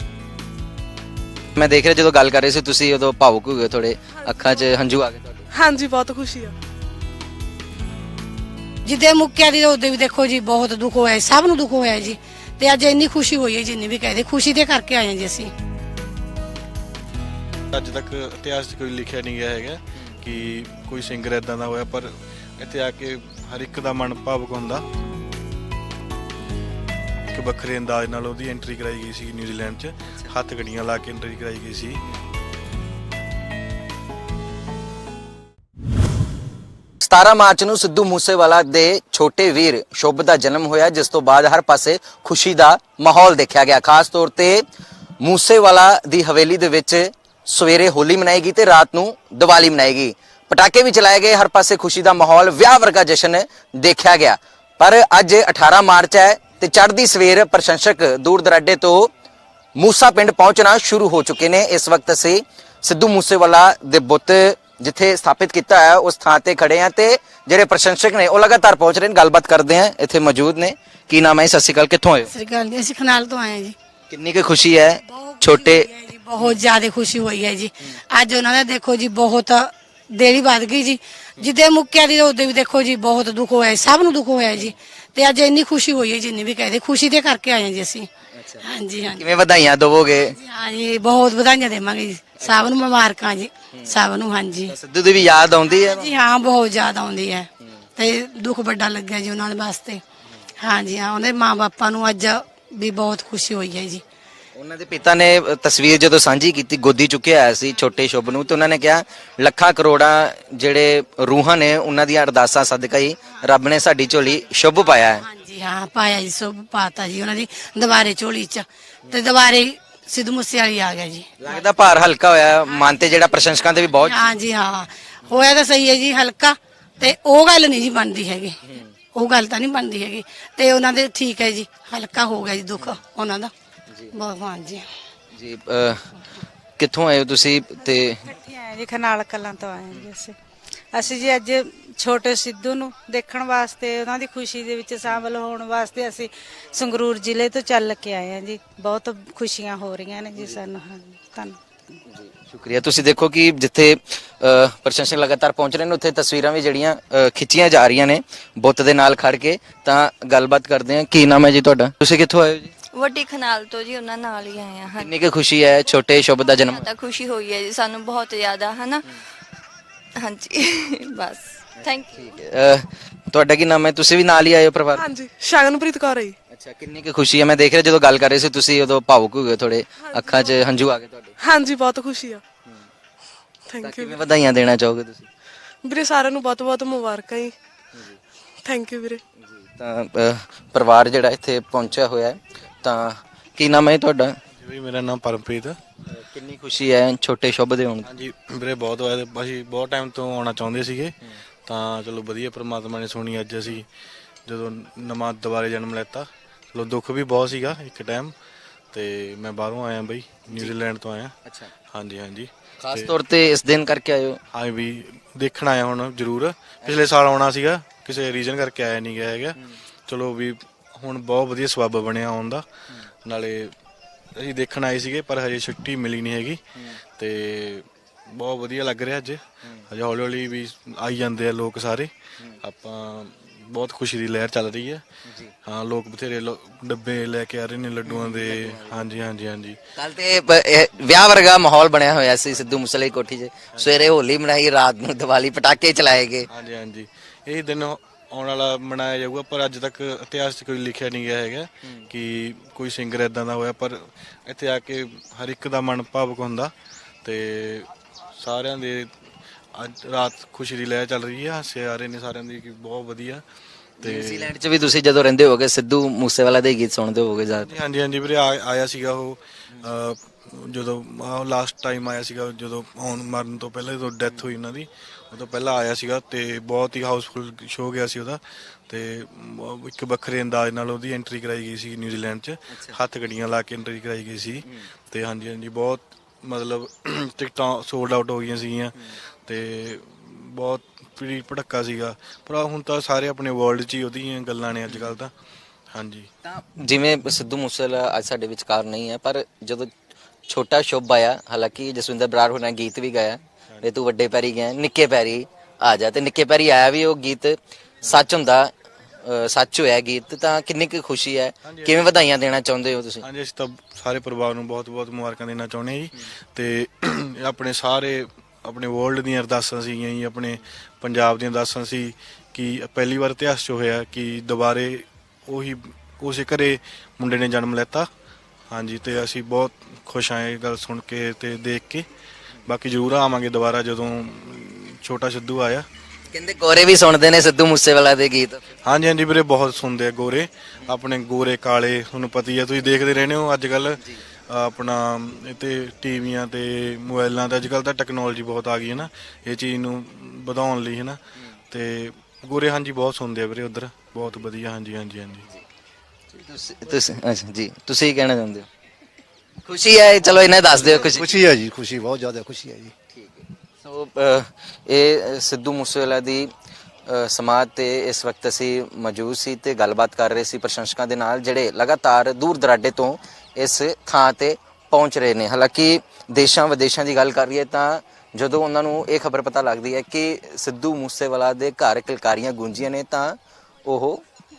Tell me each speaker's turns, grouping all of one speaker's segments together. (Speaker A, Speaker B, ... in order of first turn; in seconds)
Speaker A: 1.6-5.5, 37.0-44.6, 45.2-59.1, 59.8-72.3, 74.1-75.9, 88.3-88.6, 89.2-90.3, 94.7-96.2, 104.6-115.2, 121.4-124.3, 135.3-136.1, 136.8-138.2, 152.1-162.7, 165.0-166.9, 171.8-175.1, 176.5-181.3, 183.8-185.3, 187.9-188.2, 189.4-194.4, 196.1-198.1, 210.5-210.8, 212.8-214.4, 216.8-217.1, 235.3-235.5, 238.1-239.1, 240.0-246.5, 264.0-267.7, 282.7-283.0, 294.9-295.2, 296.4-299.9, 300.5-308.7, 309.2-313.2, 336.3-338.6, 356.3-358.7, 359.6-361.3, 363.1-366.5, 367.1-384.2
Speaker B: 4.2-4.6, 5.5-6.6, 174.9-176.4, 180.0-180.7, 181.4-182.4, 183.7-184.2, 185.8-187.6, 188.6-189.2
Speaker C: 8.8-15.5, 72.3-73.8, 75.0-88.1, 88.6-89.3, 90.2-94.7, 95.7-100.0, 100.6-104.0, 115.0-121.3, 123.9-128.6, 129.1-133.5, 134.1-134.8
Speaker D: 17.7-24.9, 27.3-32.0, 194.6-195.8, 198.0-203.9, 204.5-208.3, 208.9-211.4, 211.9-213.2, 214.5-219.6, 220.1-222.7, 223.2-223.7, 224.4-226.6, 227.2-232.1, 232.6-235.1, 235.7-239.8, 246.5-256.7, 257.2-259.1, 259.8-263.4, 264.0-264.5, 267.7-295.3, 295.9-296.3, 311.6-312.1, 313.2-328.1, 328.7-332.1, 332.7-335.9, 338.9-351.2, 351.7-355.5
Speaker E: 138.3-140.3, 140.9-151.6
Speaker F: 162.9-164.9, 166.8-169.0, 170.2-172.0
Speaker G: 360.7-362.9